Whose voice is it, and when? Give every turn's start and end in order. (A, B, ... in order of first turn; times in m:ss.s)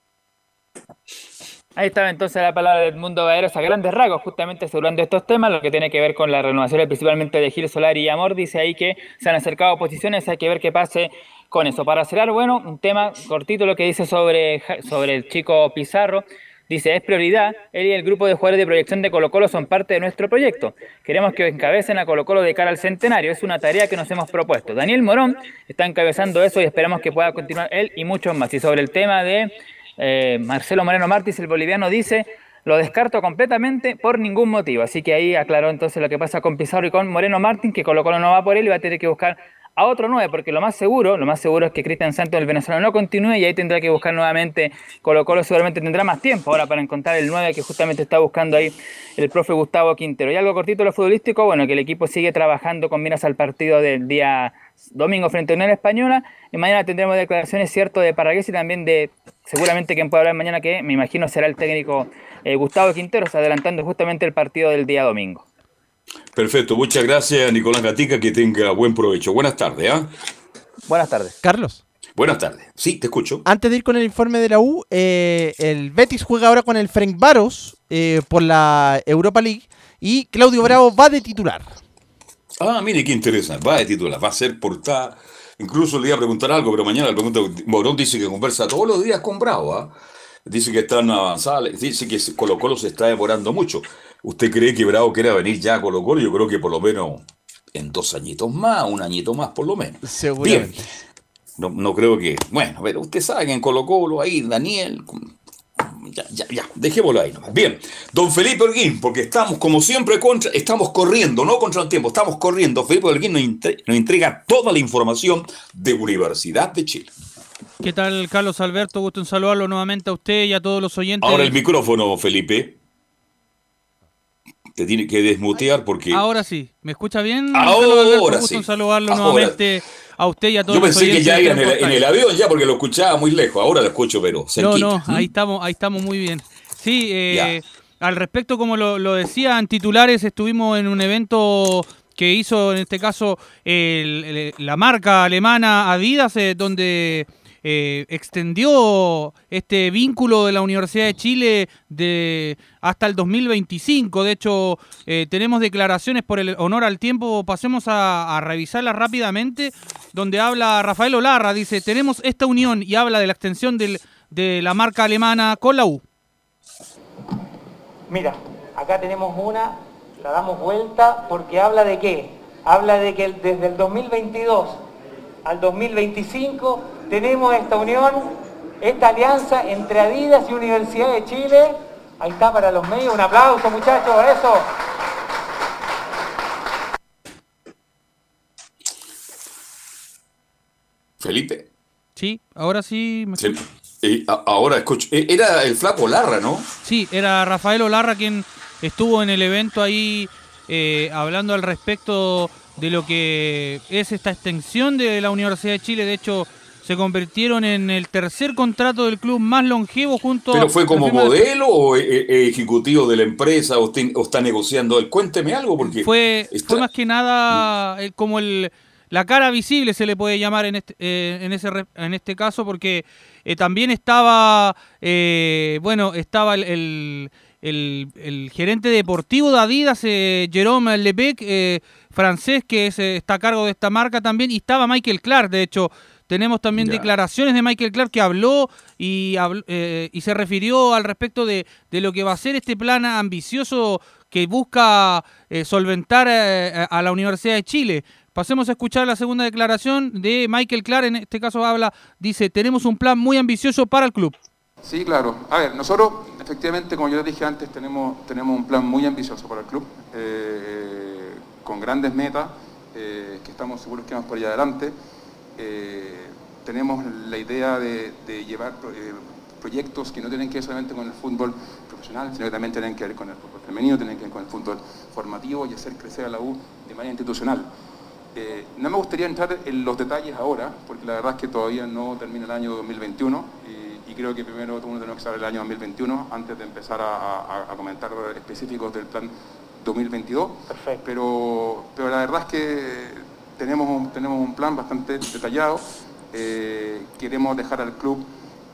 0:01.8-1:05.4 A
1:06.4-1:10.1 B
1:10.9-1:11.4 A
1:11.4-1:11.8 C
1:12.2-1:13.4 B
1:13.5-1:21.8 C
1:22.6-1:29.9 B
1:30.5-1:40.8 B
1:40.0-1:40.8 C
1:41.6-1:57.1 B
1:57.8-2:01.6 D
2:01.2-2:02.8 B
2:04.8-2:06.2 B
2:06.1-2:12.0 D
2:07.5-2:09.6 B
2:10.7-2:15.3 B
2:14.6-2:46.0 D
2:17.3-2:17.6 B
2:48.1-2:54.8 E
2:55.4-3:04.7 E
3:11.2-3:11.7 B
3:12.2-3:13.5 D
3:13.4-3:16.7 B
3:16.8-3:31.4 D
3:30.5-3:36.8 B
3:35.8-4:14.4 D
3:56.8-3:57.1 B
4:14.8-4:25.0 F
4:25.6-4:37.7 F
4:38.3-4:58.3 F
4:50.7-4:51.0 E